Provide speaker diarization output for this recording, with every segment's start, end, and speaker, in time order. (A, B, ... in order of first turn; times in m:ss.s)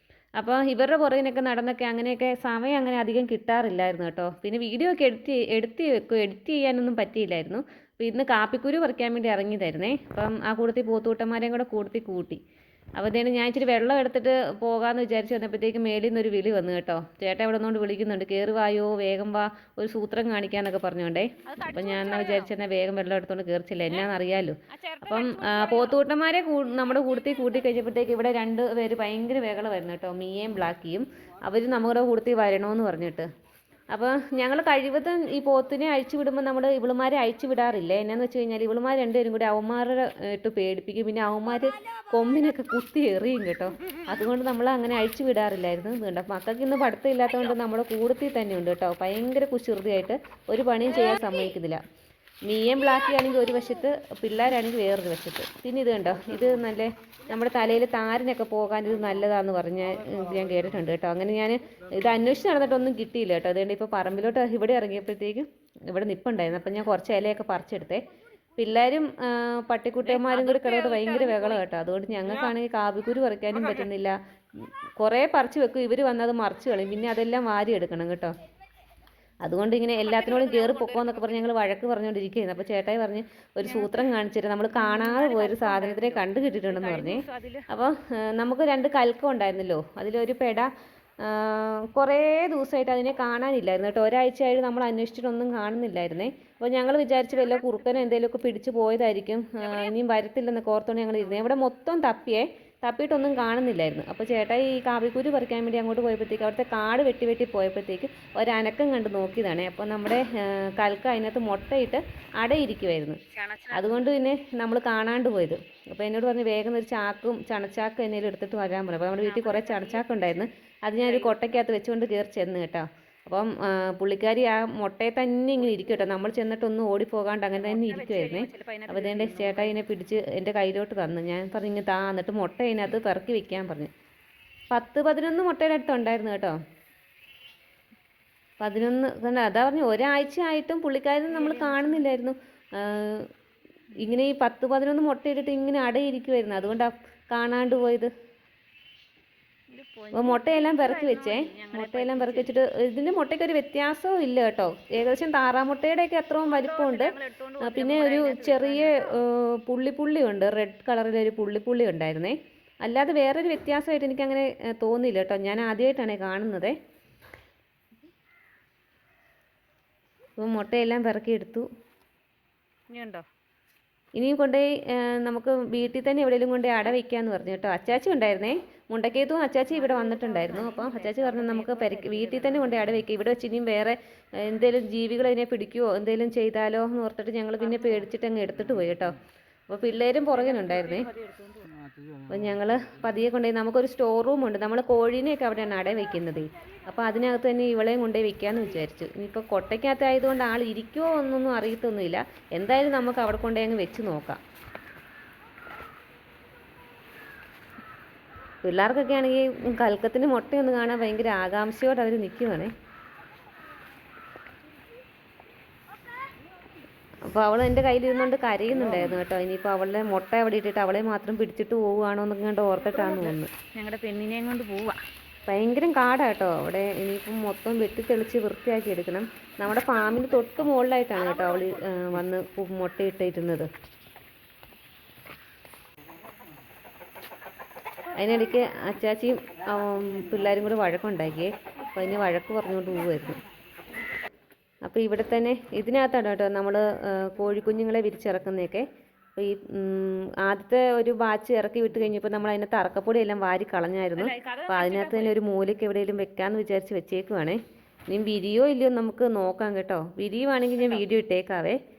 0:00.4-0:12.4 A
0:13.0-0:33.3 A
0:21.4-0:22.5 B
0:24.7-0:26.0 B
0:33.9-0:51.8 A
0:52.5-1:08.0 A
1:08.6-1:18.3 A
1:10.0-1:11.7 B
1:12.2-1:12.6 B
1:19.4-1:53.2 A
1:20.0-1:21.4 B
1:23.6-1:24.2 B
1:24.7-1:27.7 B
1:37.3-1:38.0 B
1:39.6-1:39.9 B
1:53.3-1:54.1 B
1:53.7-2:13.9 A
1:59.2-2:00.5 B
2:01.0-2:01.5 B
2:07.6-2:09.8 B
2:14.7-2:16.6 A
2:18.6-2:23.3 A
2:21.3-2:22.1 B
2:24.0-2:28.1 A
2:29.7-2:32.6 B
2:30.1-2:46.8 A
2:36.4-2:39.2 B
2:50.4-2:51.7 A
2:52.9-2:53.3 B
2:54.2-3:09.2 A
2:59.7-3:03.0 B
3:07.6-3:08.1 B
3:09.7-3:11.1 A
3:10.3-3:11.7 B
3:12.3-3:24.4 A
3:28.6-3:32.7 A
3:37.2-3:43.5 A
3:42.9-3:45.0 B
3:45.5-3:53.7 A
3:49.8-3:50.5 B
3:51.2-3:52.0 B
3:58.2-4:03.4 A
4:04.9-4:08.9 A
4:09.4-4:21.8 A
4:14.2-4:15.4 B
4:20.8-4:21.1 B